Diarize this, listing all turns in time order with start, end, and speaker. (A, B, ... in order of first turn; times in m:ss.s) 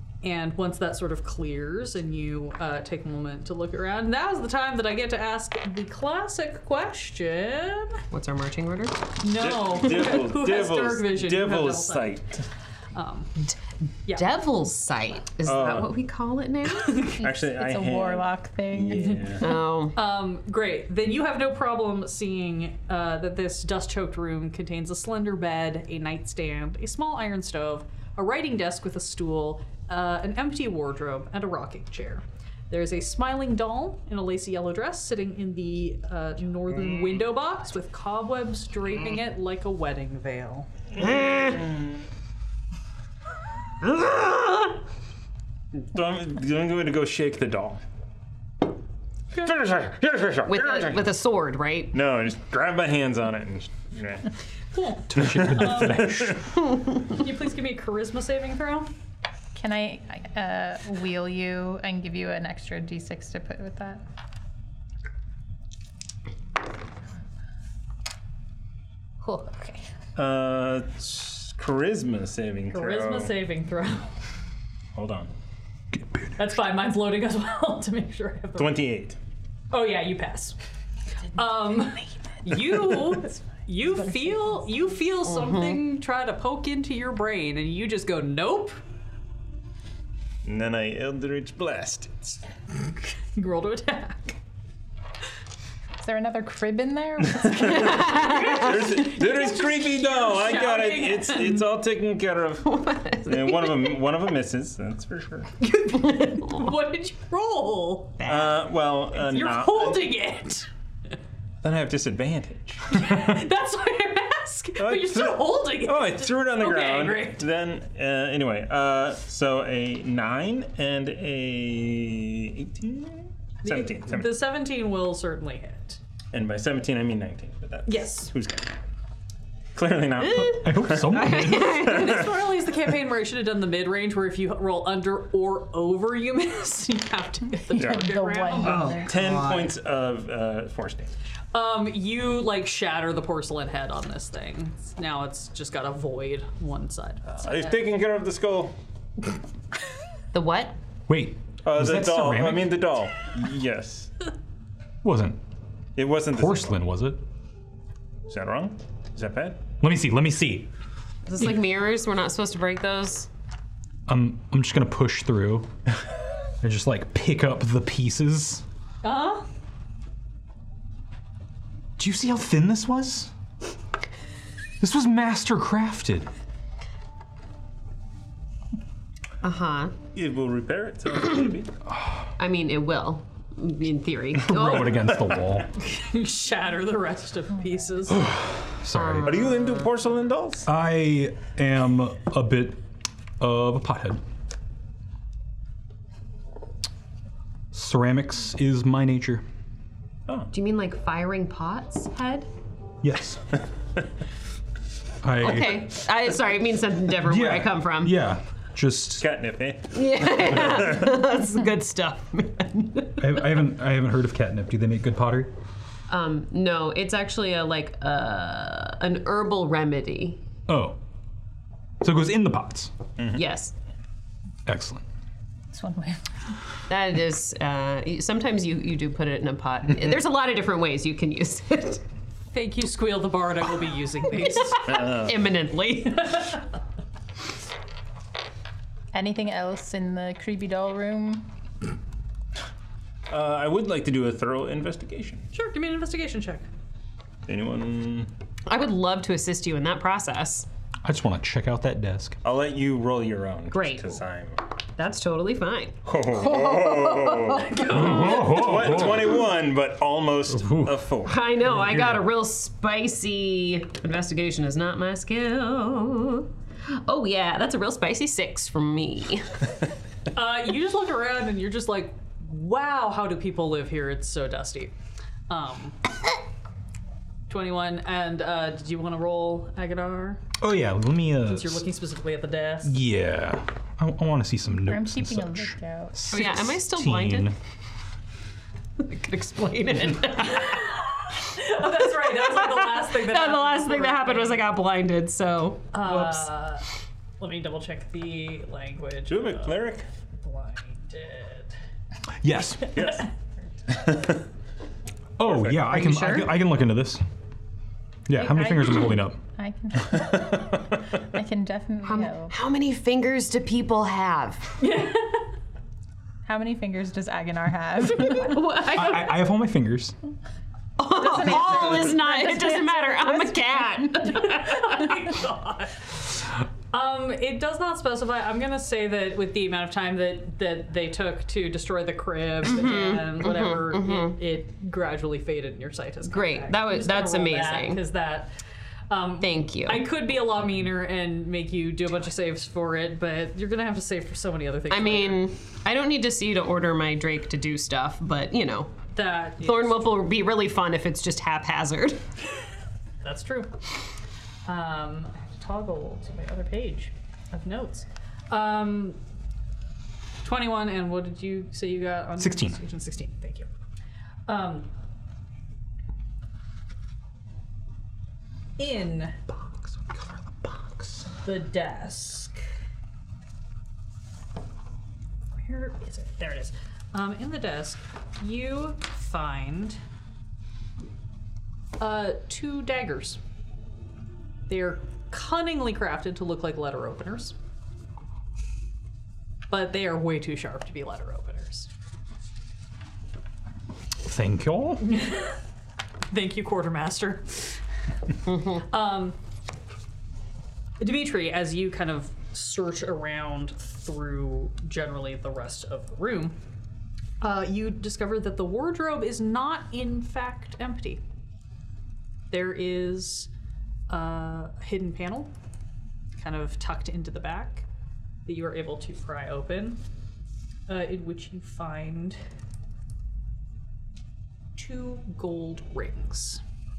0:00.2-0:08.0 A
0:08.1-0:09.1 B
0:09.2-0:12.2 A
0:09.4-0:12.4 C
0:12.9-0:13.4 A
0:14.1-0:17.1 B
0:15.4-0:16.0 C
0:16.8-0:17.2 A
0:17.2-0:19.5 C
0:17.2-0:19.4 D
0:19.4-0:20.0 B
0:19.4-0:40.7 A
0:41.0-0:41.7 B
0:41.0-0:41.9 C
0:43.8-0:44.7 B
0:45.8-0:47.8 C
0:49.4-0:51.0 C
0:50.5-0:51.9 B
0:51.9-0:54.3 C
0:54.7-0:56.1 A
0:55.1-0:56.4 E
0:55.2-0:56.4 C
0:57.0-0:58.9 A
0:59.5-1:04.0 D
1:09.2-1:09.8 D
1:10.2-1:13.3 C
1:12.7-1:14.1 A
1:14.9-1:15.3 C
1:15.9-1:16.4 E
1:16.4-1:18.8 A
1:18.6-1:19.2 C
1:19.7-1:20.6 A
1:21.3-1:28.8 A
1:25.3-1:25.8 B
1:30.4-1:32.4 C
1:33.3-1:34.4 A
1:36.0-1:38.0 D
1:37.3-1:45.5 C
1:37.6-1:39.0 B
1:38.0-1:41.6 A
1:42.6-1:44.0 B
1:45.6-1:48.2 A
1:45.9-1:46.6 B
1:48.2-1:48.6 B
1:48.2-1:50.1 C
1:49.2-1:50.7 A
1:51.6-1:53.2 C
1:52.9-1:57.5 A
1:54.8-2:04.4 C
2:03.6-2:06.0 A
2:06.3-2:08.7 C
2:07.9-2:08.3 A
2:09.7-2:12.4 C
2:10.2-2:12.3 B
2:10.5-2:11.8 E
2:11.7-2:18.9 A
2:17.7-2:19.2 D
2:17.8-2:18.1 C
2:18.6-2:21.1 C
2:18.6-2:19.7 B
2:21.5-2:27.9 A
2:27.4-2:28.7 C
2:30.3-2:30.8 B
2:31.1-2:32.9 E
2:31.6-2:34.3 C
2:35.0-2:35.4 E
2:36.0-2:36.8 C
2:36.3-2:37.2 E
2:38.3-2:39.6 C
2:39.8-2:40.7 E
2:41.2-2:43.3 B
2:44.1-2:45.7 E
2:46.6-2:48.6 E
2:49.0-2:49.4 A
2:52.0-2:53.3 E
2:54.8-2:56.3 E
2:59.4-2:59.9 B
3:00.1-3:01.7 C
3:02.4-3:05.1 B
3:04.4-3:05.7 E
3:05.8-3:08.3 A
3:08.1-3:09.5 E
3:08.9-3:09.8 B
3:09.2-3:10.7 C
3:10.6-3:12.8 E
3:13.4-3:14.2 E
3:17.7-3:19.4 E
3:20.5-3:22.5 B
3:23.0-3:23.5 E
3:25.2-3:25.9 E
3:25.4-3:28.2 B
3:27.3-3:29.2 E
3:29.2-3:31.2 C
3:29.9-3:33.4 B
3:33.2-3:35.5 E
3:36.1-3:40.4 B
3:40.7-3:41.0 E
3:42.0-3:42.9 E
3:43.2-3:43.4 C
3:43.3-3:43.7 B
3:44.6-3:45.0 E
3:45.7-3:46.2 D
3:46.9-3:52.0 B
3:52.5-3:55.1 A
3:54.6-3:56.4 B
3:54.8-3:55.4 C
3:59.1-4:01.4 D
4:03.3-4:05.5 C
4:05.5-4:06.7 A
4:07.5-4:08.3 C
4:08.6-4:10.7 B
4:11.0-4:12.4 E
4:12.4-4:14.6 C
4:13.7-4:14.2 B
4:15.0-4:18.4 B
4:16.0-4:21.5 C
4:17.8-4:18.4 A
4:17.8-4:19.4 E
4:20.5-4:20.9 E
4:21.2-4:29.6 B
4:21.8-4:22.2 E
4:30.3-4:34.9 A
4:35.5-4:36.1 A
4:37.5-4:40.4 A
4:40.6-4:41.8 E
4:41.4-4:43.0 A
4:42.8-4:47.6 E
4:44.9-4:46.3 D
4:46.3-4:47.5 B
4:49.0-4:51.0 B
4:50.5-4:54.6 A
4:52.2-4:56.4 B
4:55.9-4:56.9 A
4:57.4-5:01.7 A
4:59.3-5:00.1 C
5:02.4-5:03.1 E
5:02.9-5:03.3 C
5:03.9-5:04.4 C
5:05.4-5:07.2 E
5:05.4-5:05.9 C
5:05.9-5:06.6 B
5:08.3-5:09.4 E
5:08.3-5:12.5 D
5:10.3-5:10.7 C
5:12.0-5:14.8 B
5:14.8-5:15.5 A
5:16.4-5:18.7 D
5:18.1-5:19.4 B
5:18.9-5:20.1 E
5:21.0-5:25.1 B
5:21.1-5:24.4 D
5:24.2-5:38.5 A
5:32.6-5:34.4 B
5:36.3-5:38.0 B
5:39.1-5:45.4 A
5:39.4-5:40.1 B
5:44.9-5:48.9 B
5:49.1-5:50.0 A
5:49.6-5:52.2 B
5:53.2-5:53.8 A
5:54.6-5:59.2 A
6:00.4-6:03.7 A
6:02.4-6:02.8 E
6:04.5-6:04.9 A
6:08.8-6:09.4 A
6:09.8-6:11.3 E
6:11.4-6:12.6 A
6:15.6-6:20.0 A
6:22.0-6:23.4 A
6:24.7-6:27.5 A
6:29.7-6:31.9 A
6:34.2-6:35.1 E
6:35.0-6:35.6 A
6:36.3-6:37.8 A
6:38.7-6:39.4 A
6:41.0-6:46.6 A
6:47.4-6:51.2 A
6:52.5-6:53.5 A
6:54.1-6:55.5 A
6:56.4-6:57.9 A
6:58.4-7:00.0 A
7:00.9-7:02.4 A
7:04.8-7:06.6 A